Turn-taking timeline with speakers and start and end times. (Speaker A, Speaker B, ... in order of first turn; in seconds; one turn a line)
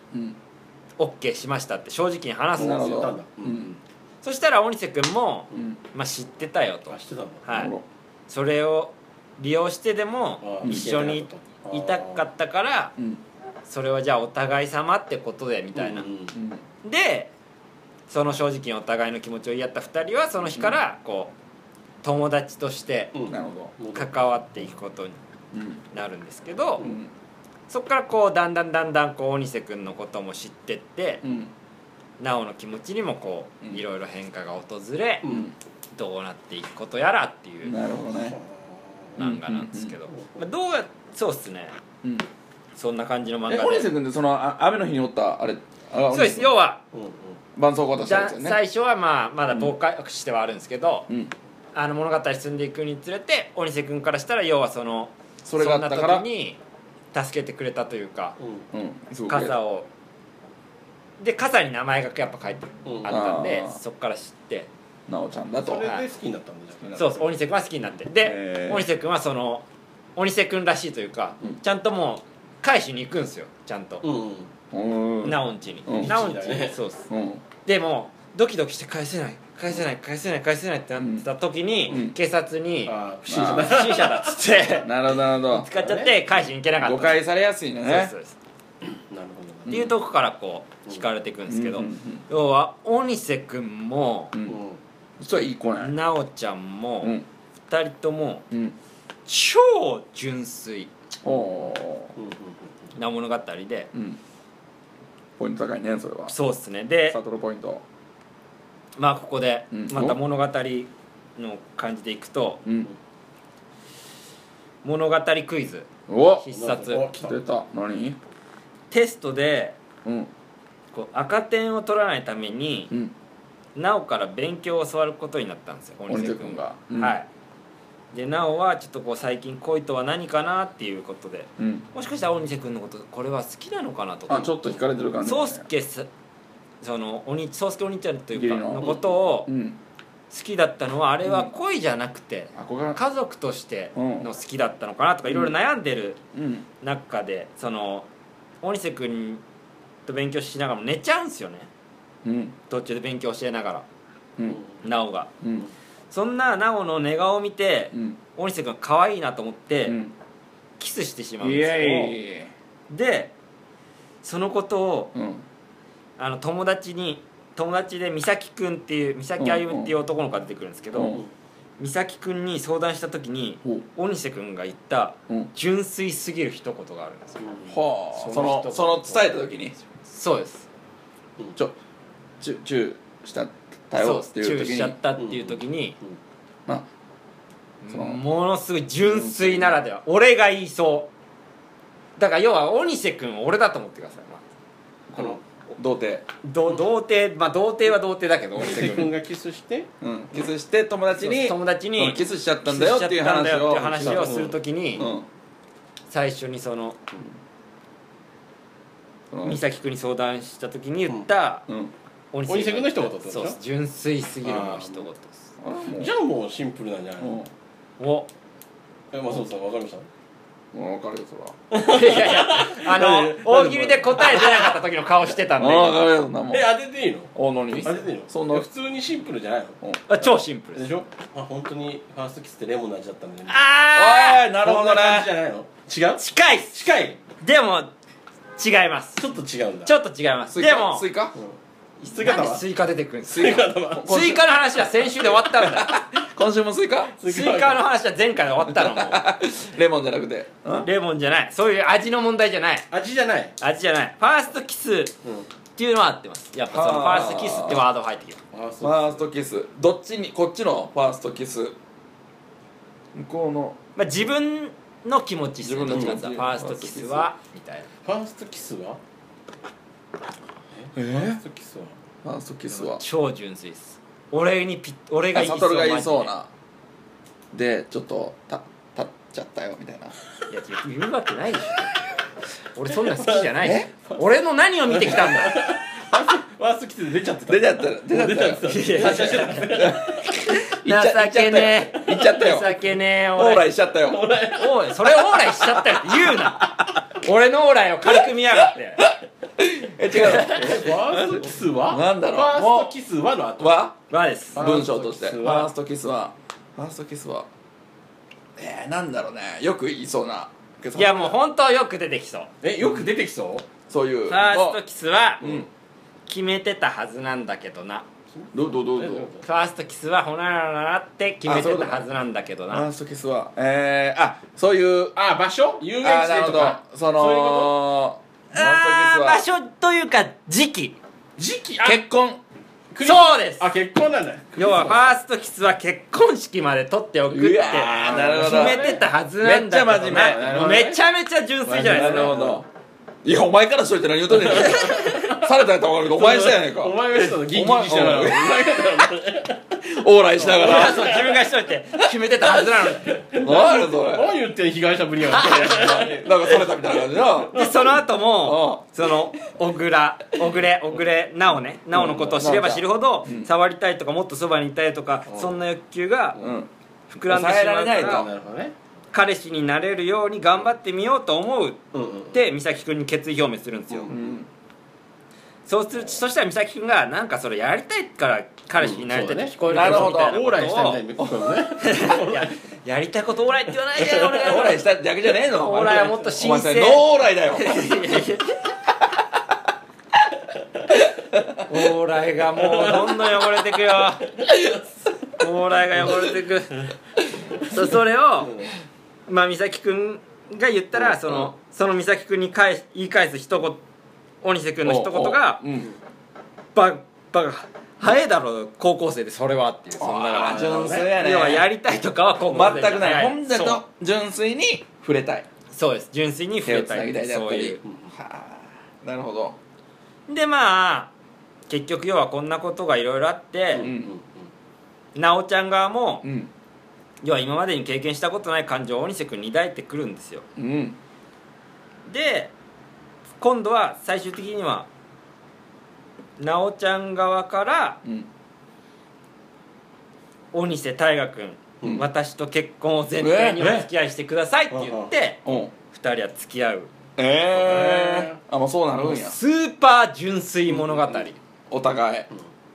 Speaker A: 0.1-0.4
Speaker B: 1.0-3.0
Speaker A: 2.5-3.7
Speaker C: 2.5-3.8
Speaker B: 4.2-7.7
Speaker A: 5.5-5.8
Speaker C: 6.9-7.5
Speaker A: 7.5-7.8
Speaker B: 8.3-12.9
Speaker C: 10.4-12.3
Speaker A: 10.6-10.9
Speaker A: 13.0-13.2
Speaker B: 13.7-16.1
Speaker C: 15.7-16.4
Speaker A: 16.3-16.6
Speaker B: 16.8-17.3
Speaker B: 18.1-21.3
Speaker B: 22.0-23.1
Speaker C: 23.1-24.3
Speaker A: 23.3-23.7
Speaker B: 23.9-25.2
Speaker A: 25.5-25.8
Speaker B: 25.9-26.9
Speaker A: 26.8-27.1
Speaker B: 27.7-31.2
Speaker A: 31.2-31.5
Speaker B: 32.2-35.2
Speaker C: 35.2-35.5
Speaker A: 35.3-35.5
Speaker B: 35.9-37.8
Speaker A: 37.6-38.4
Speaker C: 38.1-39.1
Speaker B: 39.1-41.7
Speaker A: 39.2-39.9
Speaker C: 40.1-40.4
Speaker B: 42.8-43.9
Speaker A: 43.5-46.5
Speaker B: 46.1-46.8
Speaker C: 46.9-47.4
Speaker A: 47.5-48.6
Speaker B: 48.0-51.1
Speaker B: 51.7-56.6
Speaker A: 55.4-56.2
Speaker B: 57.1-58.4
Speaker A: 58.7-59.5
Speaker B: 59.3-59.9
Speaker B: 61.2-64.7
Speaker C: 62.8-63.2
Speaker A: 63.0-63.8
Speaker A: 65.1-65.9
Speaker C: 65.6-67.2
Speaker A: 66.8-67.1
Speaker B: 67.0-69.6
Speaker A: 68.2-68.8
Speaker B: 70.2-74.0
Speaker C: 74.0-74.5
Speaker A: 74.7-76.2
Speaker B: 75.2-77.1
Speaker C: 75.9-76.8
Speaker A: 77.1-77.4
Speaker B: 77.6-82.9
Speaker A: 81.0-81.2
Speaker A: 81.9-82.1
Speaker C: 82.9-84.4
Speaker A: 83.3-83.8
Speaker B: 83.5-87.2
Speaker A: 84.8-85.7
Speaker C: 85.8-86.1
Speaker A: 86.8-88.1
Speaker B: 87.8-88.3
Speaker C: 88.8-89.9
Speaker B: 89.7-94.3
Speaker A: 91.5-92.2
Speaker A: 94.3-94.6
Speaker C: 94.5-94.8
Speaker A: 95.2-96.0
Speaker B: 95.8-97.2
Speaker B: 97.7-98.5
Speaker A: 98.5-98.8
Speaker B: 99.2-100.9
Speaker A: 101.2-102.1
Speaker C: 102.2-102.7
Speaker B: 103.0-103.9
Speaker A: 103.9-104.2
Speaker A: 105.4-106.3
Speaker B: 106.3-107.2
Speaker A: 107.1-107.8
Speaker B: 109.0-112.6
Speaker A: 109.7-110.2
Speaker A: 112.6-112.9
Speaker B: 114.8-115.9
Speaker A: 116.1-116.5
Speaker B: 116.4-117.1
Speaker C: 116.5-117.4
Speaker A: 117.2-118.2
Speaker B: 118.9-119.8
Speaker A: 120.0-120.3
Speaker B: 120.9-122.9
Speaker B: 123.8-127.3
Speaker A: 126.1-127.1
Speaker B: 128.1-134.6
Speaker A: 131.6-131.8
Speaker A: 134.3-135.6
Speaker B: 135.2-136.1
Speaker B: 136.8-139.5
Speaker A: 138.3-139.8
Speaker B: 140.3-146.2
Speaker A: 141.2-141.5
Speaker A: 142.5-143.0
Speaker A: 143.9-144.3
Speaker A: 145.3-145.5
Speaker A: 146.3-146.7
Speaker B: 146.8-148.1
Speaker B: 148.6-149.4
Speaker B: 150.1-151.7
Speaker A: 152.2-152.6
Speaker B: 152.7-153.8
Speaker C: 154.5-154.8
Speaker B: 154.8-155.3
Speaker A: 155.4-155.7
Speaker B: 156.1-160.0
Speaker A: 157.9-158.2
Speaker A: 159.8-160.1
Speaker B: 160.8-162.2
Speaker A: 161.4-162.5
Speaker B: 162.9-163.3
Speaker B: 164.2-165.1
Speaker A: 165.1-165.4
Speaker B: 166.2-171.2
Speaker A: 169.4-169.9
Speaker A: 170.9-171.2
Speaker B: 171.8-177.5
Speaker C: 177.4-179.2
Speaker A: 177.7-179.7
Speaker B: 178.2-178.9
Speaker B: 180.1-180.7
Speaker A: 182.4-185.0
Speaker B: 184.0-186.0
Speaker C: 185.2-186.2
Speaker B: 187.8-191.1
Speaker A: 187.9-188.2
Speaker A: 189.0-189.8
Speaker B: 192.2-194.4
Speaker A: 195.1-196.2
Speaker B: 196.4-199.1
Speaker C: 198.6-199.9
Speaker A: 198.6-199.1
Speaker A: 200.0-204.4
Speaker B: 201.2-205.1
Speaker C: 204.0-205.1
Speaker A: 205.0-205.2
Speaker B: 206.1-207.0
Speaker A: 209.3-209.6
Speaker B: 209.4-211.7
Speaker A: 211.7-211.9
Speaker B: 212.3-215.4
Speaker C: 212.5-213.6
Speaker C: 214.4-215.1
Speaker A: 215.6-216.1
Speaker C: 215.9-217.3
Speaker A: 217.2-217.5
Speaker B: 218.0-218.3
Speaker C: 219.1-220.1
Speaker A: 220.7-221.6
Speaker C: 221.7-224.8
Speaker B: 221.8-226.0
Speaker A: 225.6-226.7
Speaker C: 226.5-233.6
Speaker A: 227.3-228.7
Speaker B: 230.1-230.9
Speaker B: 233.5-234.4
Speaker A: 233.9-235.3
Speaker C: 234.6-237.2
Speaker B: 236.2-236.8
Speaker B: 237.4-237.9
Speaker B: 238.6-239.3
Speaker C: 239.2-239.9
Speaker B: 239.8-241.1
Speaker A: 240.5-241.3
Speaker C: 241.3-242.6
Speaker B: 242.0-246.0
Speaker C: 243.3-244.1
Speaker A: 243.3-247.2
Speaker C: 247.2-247.8
Speaker B: 247.2-249.2
Speaker A: 248.6-250.9
Speaker B: 250.8-252.9
Speaker C: 252.9-253.5
Speaker B: 253.6-255.1
Speaker B: 255.8-258.4
Speaker A: 256.7-257.8
Speaker C: 258.5-259.2
Speaker A: 258.8-261.7
Speaker A: 263.1-263.8
Speaker B: 263.9-267.9
Speaker A: 265.6-267.3
Speaker C: 268.0-269.0
Speaker C: 270.7-271.9
Speaker A: 270.9-271.4
Speaker A: 272.2-273.0
Speaker B: 272.8-276.3
Speaker A: 275.3-276.5
Speaker A: 277.5-280.1
Speaker B: 280.5-282.0
Speaker B: 282.7-285.7
Speaker A: 283.6-283.9
Speaker C: 284.9-290.1
Speaker A: 287.5-292.8
Speaker B: 288.6-293.7
Speaker A: 293.3-294.2
Speaker C: 294.0-295.2
Speaker B: 294.5-299.1
Speaker A: 295.9-296.7
Speaker A: 299.0-302.9
Speaker B: 300.1-300.9
Speaker C: 300.3-303.8
Speaker A: 303.6-303.9
Speaker B: 304.1-304.6
Speaker A: 304.5-307.5
Speaker C: 304.5-305.7
Speaker A: 308.6-311.3
Speaker B: 310.9-312.5
Speaker C: 312.6-313.6
Speaker A: 312.8-313.1
Speaker A: 313.9-314.8
Speaker B: 314.3-315.4
Speaker C: 315.4-315.7
Speaker A: 315.4-315.7
Speaker B: 316.3-318.1
Speaker C: 318.3-319.4
Speaker A: 318.5-319.3
Speaker B: 319.4-322.9
Speaker A: 321.4-322.1
Speaker A: 322.7-325.1
Speaker C: 325.1-327.8
Speaker A: 326.0-329.4
Speaker B: 328.5-331.0
Speaker C: 331.4-332.0
Speaker A: 331.8-332.4
Speaker C: 332.9-335.1
Speaker B: 333.0-333.7
Speaker B: 334.6-342.4
Speaker A: 337.3-340.8
Speaker C: 337.9-339.0
Speaker C: 340.0-341.0
Speaker C: 341.6-342.6
Speaker A: 341.8-342.7
Speaker A: 343.2-349.1
Speaker C: 344.3-345.4
Speaker C: 346.0-349.8
Speaker A: 349.8-351.2
Speaker C: 350.4-351.4
Speaker B: 350.6-353.2
Speaker C: 352.7-356.7
Speaker A: 353.3-354.4
Speaker B: 355.3-356.0
Speaker A: 355.4-357.6
Speaker B: 357.5-366.4
Speaker A: 358.4-359.1
Speaker A: 361.9-363.5
Speaker C: 365.3-365.6
Speaker A: 366.4-366.7
Speaker B: 367.1-368.3
Speaker A: 367.3-368.3
Speaker C: 367.9-368.7
Speaker B: 369.1-371.8
Speaker C: 371.9-372.4
Speaker B: 372.3-374.1
Speaker C: 373.9-374.4
Speaker A: 374.1-374.5
Speaker B: 375.7-381.0
Speaker C: 378.8-382.5
Speaker A: 379.7-380.4
Speaker A: 381.2-381.5
Speaker B: 381.8-384.8
Speaker C: 384.0-384.6
Speaker A: 384.3-388.2
Speaker B: 385.6-388.6
Speaker A: 390.9-391.6
Speaker B: 391.7-394.3
Speaker C: 392.6-393.6
Speaker C: 394.4-394.6
Speaker B: 395.4-396.9
Speaker B: 397.6-398.6
Speaker B: 399.3-403.8
Speaker A: 401.0-401.5
Speaker B: 404.4-405.6
Speaker A: 404.8-405.9
Speaker B: 406.7-413.8
Speaker A: 410.0-411.7
Speaker C: 410.3-411.1
Speaker A: 412.5-415.5
Speaker B: 415.7-417.8
Speaker A: 416.6-419.6
Speaker C: 417.8-418.1
Speaker B: 420.3-421.1
Speaker B: 421.7-423.9
Speaker C: 423.7-424.4
Speaker A: 423.8-424.1
Speaker B: 425.1-426.2
Speaker A: 426.2-426.5
Speaker B: 427.2-430.4
Speaker A: 430.6-431.0
Speaker B: 432.1-432.5
Speaker B: 433.4-434.9
Speaker B: 436.4-438.0
Speaker B: 440.5-446.9
Speaker A: 443.2-443.8
Speaker C: 444.7-445.1
Speaker A: 445.4-445.7
Speaker A: 447.2-449.4
Speaker C: 447.5-448.4
Speaker B: 449.0-451.4
Speaker A: 451.7-452.3